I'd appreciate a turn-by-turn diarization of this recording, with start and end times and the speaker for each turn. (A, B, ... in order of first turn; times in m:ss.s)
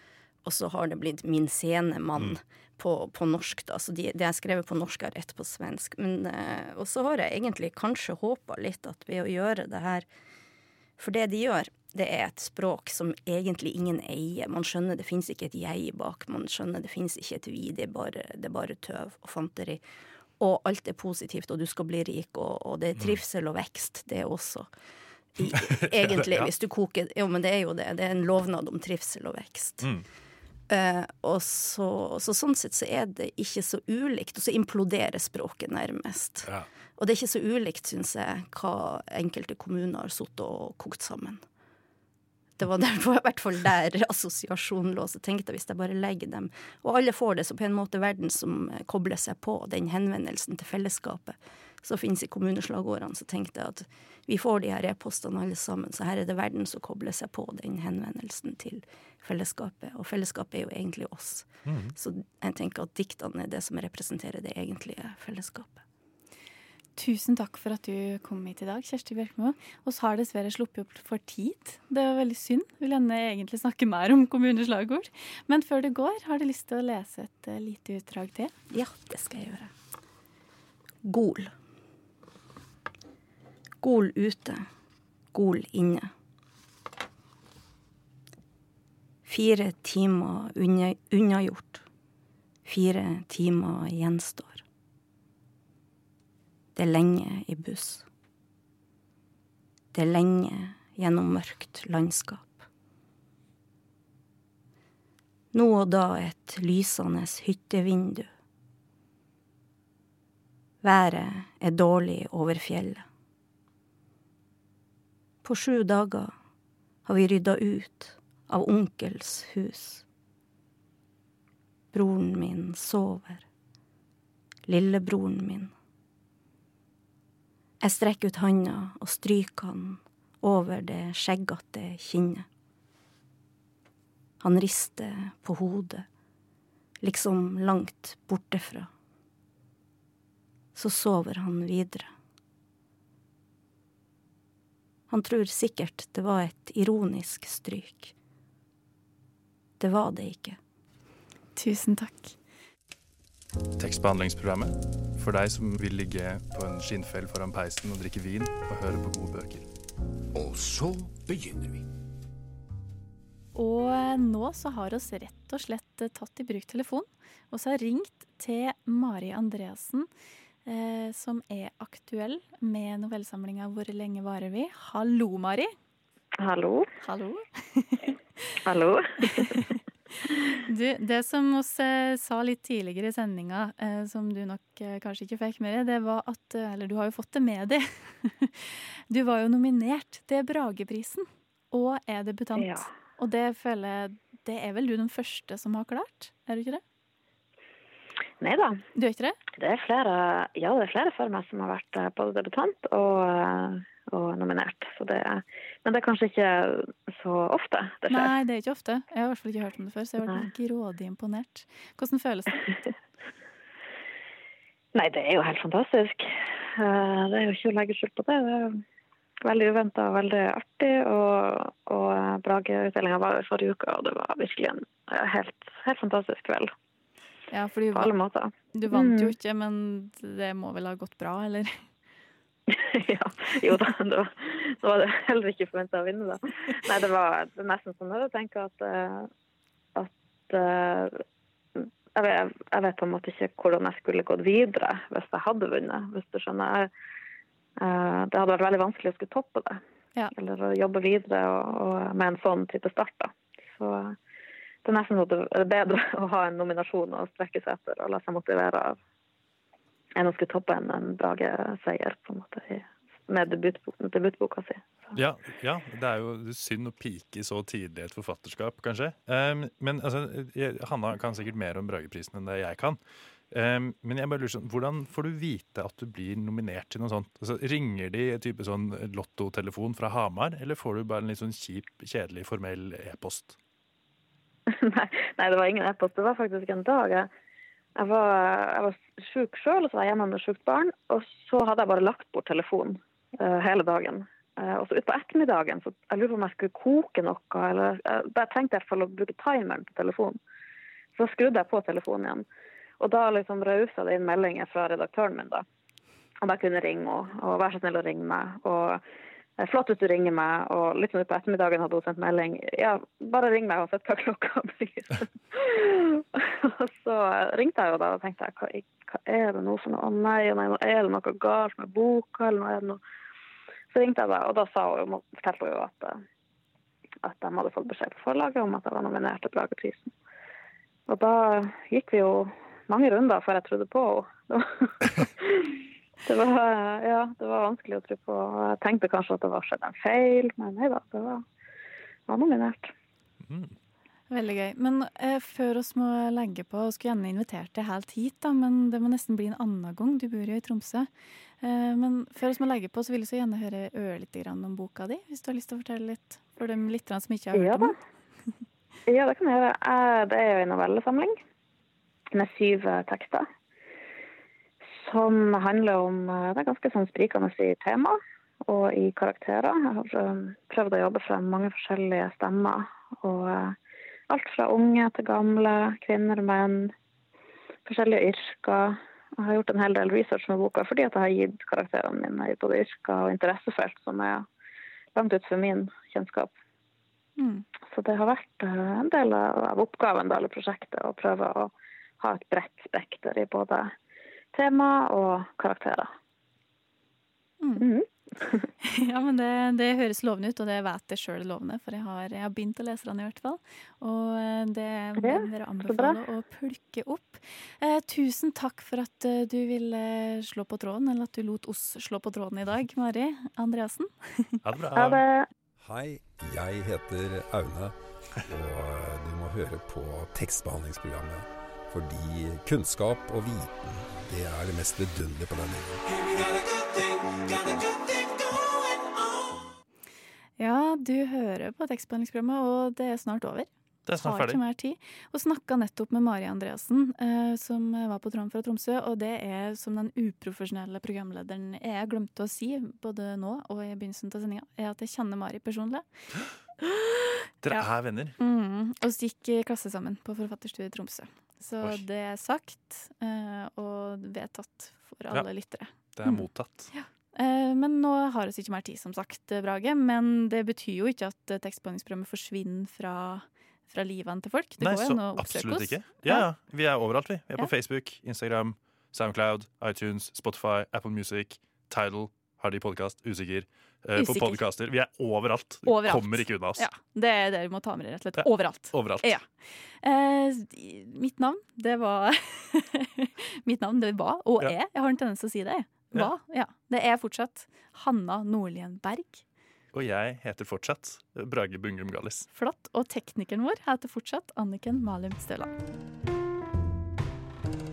0:00.4-0:10.1 A
0:11.0-0:19.8 A
0:20.4-0:24.7 A
0:25.4-0:29.9 A
0:25.4-0:26.5 B
0:30.7-0:41.4 A
0:42.6-1:05.8 A
1:01.6-1:01.9 B
1:07.0-1:18.5 C
1:18.7-1:19.7 A
1:21.0-1:21.5 A
1:23.8-1:24.7 A
1:25.3-1:26.1 A
1:29.2-1:31.8 A
1:32.6-1:34.6 A
1:36.7-1:38.1 A
1:39.9-1:42.7 A
1:45.5-1:48.3 A
1:50.8-1:53.0 A
1:55.4-1:56.3 A
1:57.0-2:00.0 A
2:01.9-2:03.4 A
2:04.7-2:05.7 A
2:07.8-2:12.5 A
2:14.4-2:16.1 A
2:17.0-2:18.9 A
2:20.7-2:22.1 A
2:25.1-2:28.1 A
2:29.8-2:30.6 A
2:31.6-2:32.3 C
2:33.8-2:39.6 B
2:40.3-2:41.8 D
2:43.5-2:50.1 C
2:50.6-2:55.7 C
2:56.4-2:56.9 E
2:57.0-2:58.2 C
2:58.7-2:59.7 E
2:59.2-3:16.8 C
3:12.6-3:12.9 E
3:18.4-3:18.8 E
3:18.9-3:19.4 C
3:19.6-3:28.3 E
3:28.1-3:32.7 C
3:34.9-3:38.8 E
3:39.4-3:46.7 E
3:47.5-3:48.1 C
3:47.9-3:49.3 E
3:48.7-3:51.8 C
3:52.7-3:59.3 E
4:00.0-4:01.2 E
4:01.8-4:06.9 E
4:07.8-4:09.8 E
4:10.3-4:14.2 E
4:14.8-4:19.0 E
4:20.2-4:25.1 E
4:25.1-4:33.0 B
4:33.5-4:43.6 B
4:44.7-4:47.3 E
4:48.0-5:00.4 E
5:01.1-5:02.4 E
5:03.0-5:05.6 E
5:06.4-5:09.0 E
5:09.6-5:23.0 E
5:23.9-5:26.2 E
5:27.2-5:30.1 E
5:31.1-5:41.4 E
5:42.3-5:42.9 E
5:43.5-5:43.8 B
5:44.3-5:51.1 C
5:51.6-5:57.9 C
5:57.5-5:57.9 E
5:59.1-6:01.4 E
6:02.3-6:03.4 E
6:05.0-6:13.8 E
6:14.3-6:16.9 E
6:17.8-6:24.4 E
6:25.1-6:26.5 E
6:27.4-6:27.6 C
6:27.9-6:33.9 E
6:34.5-6:36.1 E
6:37.8-6:38.6 E
6:38.8-6:54.6 C
6:45.2-6:46.2 E
6:54.6-6:55.2 B
6:55.0-6:55.5 E
6:55.8-6:57.9 F
6:58.5-7:06.0 F
7:06.2-7:08.4 D
7:10.6-7:26.0 C
7:14.0-7:14.6 B
7:26.8-7:46.4 C
7:27.6-7:28.4 B
7:36.1-7:36.9 B
7:44.8-7:56.9 B
7:54.2-7:54.6 C
7:55.8-8:09.4 C
7:58.4-7:59.3 B
8:09.9-8:12.5 B
8:12.5-8:15.7 C